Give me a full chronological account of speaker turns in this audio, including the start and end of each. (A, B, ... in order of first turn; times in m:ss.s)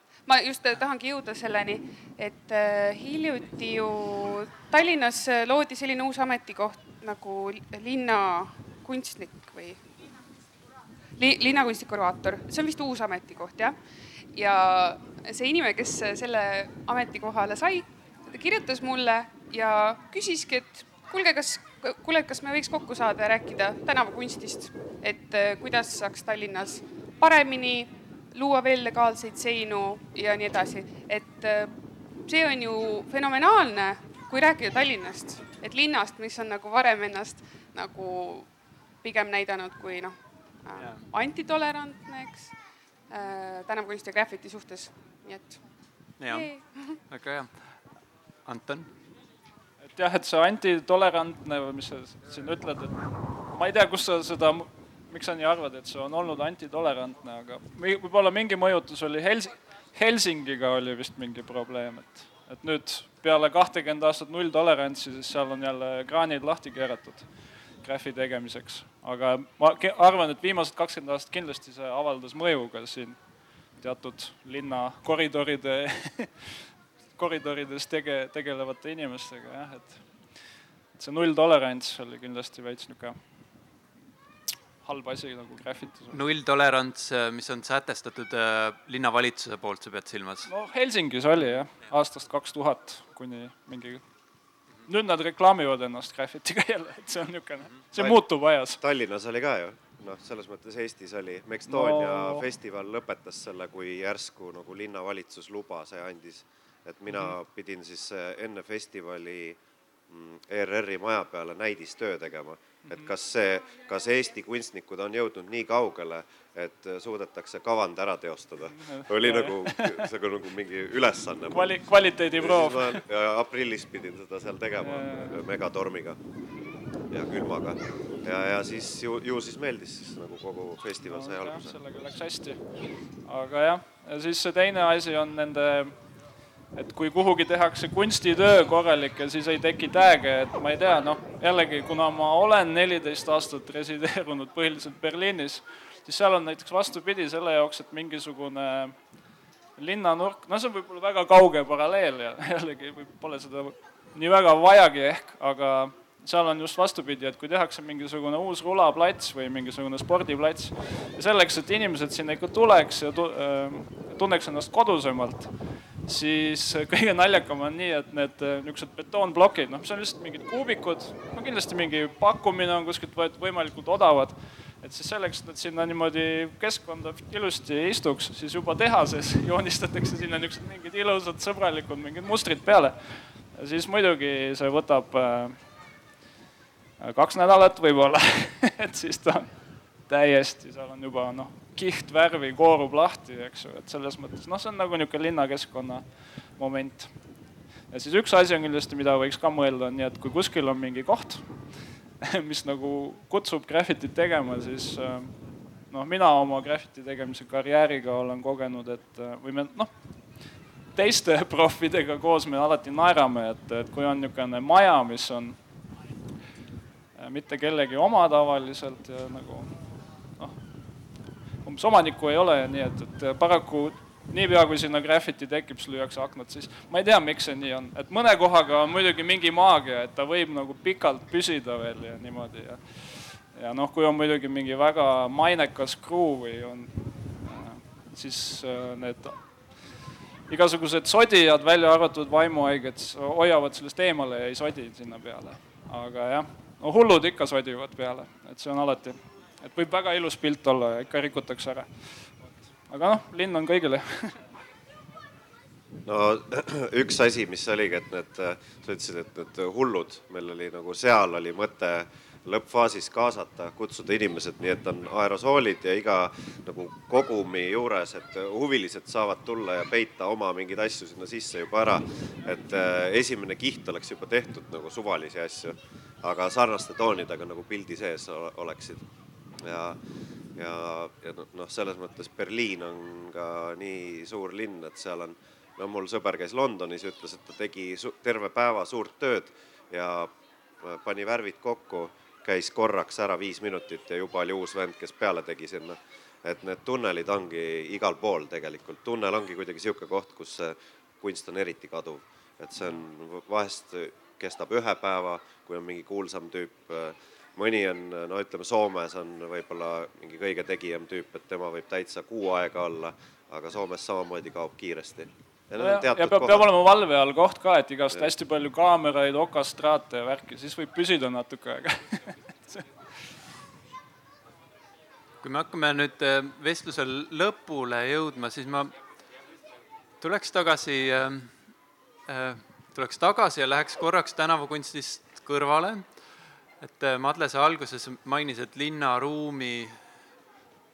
0:00.3-0:09.8 A
0:11.2-0:13.8 A
0:14.3-0:31.7 A
0:32.2-0:38.5 A
0:39.0-0:42.5 A
0:40.8-0:41.1 B
0:43.1-0:45.6 A
0:46.2-0:46.5 B
0:46.3-0:47.0 A
0:47.1-0:47.5 B
0:48.5-0:48.9 B
0:49.9-0:52.9 C
0:53.5-1:07.2 C
1:07.8-1:13.2 C
1:13.8-1:16.5 C
1:17.2-1:20.0 C
1:21.0-1:23.2 C
1:24.8-1:26.2 C
1:26.1-1:30.5 B
1:30.5-1:34.0 C
1:34.9-1:38.8 C
1:37.9-1:38.2 D
1:38.8-2:01.8 D
1:41.7-1:42.4 C
1:58.8-2:00.1 C
2:01.5-2:03.0 C
2:02.4-2:06.2 D
2:04.8-2:05.4 C
2:07.1-2:11.8 D
2:11.0-2:12.6 C
2:13.2-2:15.9 C
2:16.8-2:29.0 C
2:29.8-2:45.5 C
2:46.1-3:03.0 C
3:03.5-3:05.6 C
3:07.0-3:09.5 C
3:10.1-3:16.0 C
3:16.6-3:17.1 C
3:17.9-3:21.4 C
3:22.2-3:25.3 C
3:25.9-3:29.9 C
3:31.0-3:35.6 C
3:37.2-3:39.7 C
3:41.6-3:52.8 C
3:53.5-3:56.9 C
3:57.4-3:59.4 C
4:00.5-4:11.9 C
4:12.9-4:14.4 C
4:16.1-4:39.0 D
4:39.6-4:40.0 D
4:40.6-5:16.7 D
5:15.8-5:22.8 C
5:25.4-5:28.9 B
5:30.2-5:31.5 B
5:32.3-5:36.0 B
5:36.8-5:39.9 B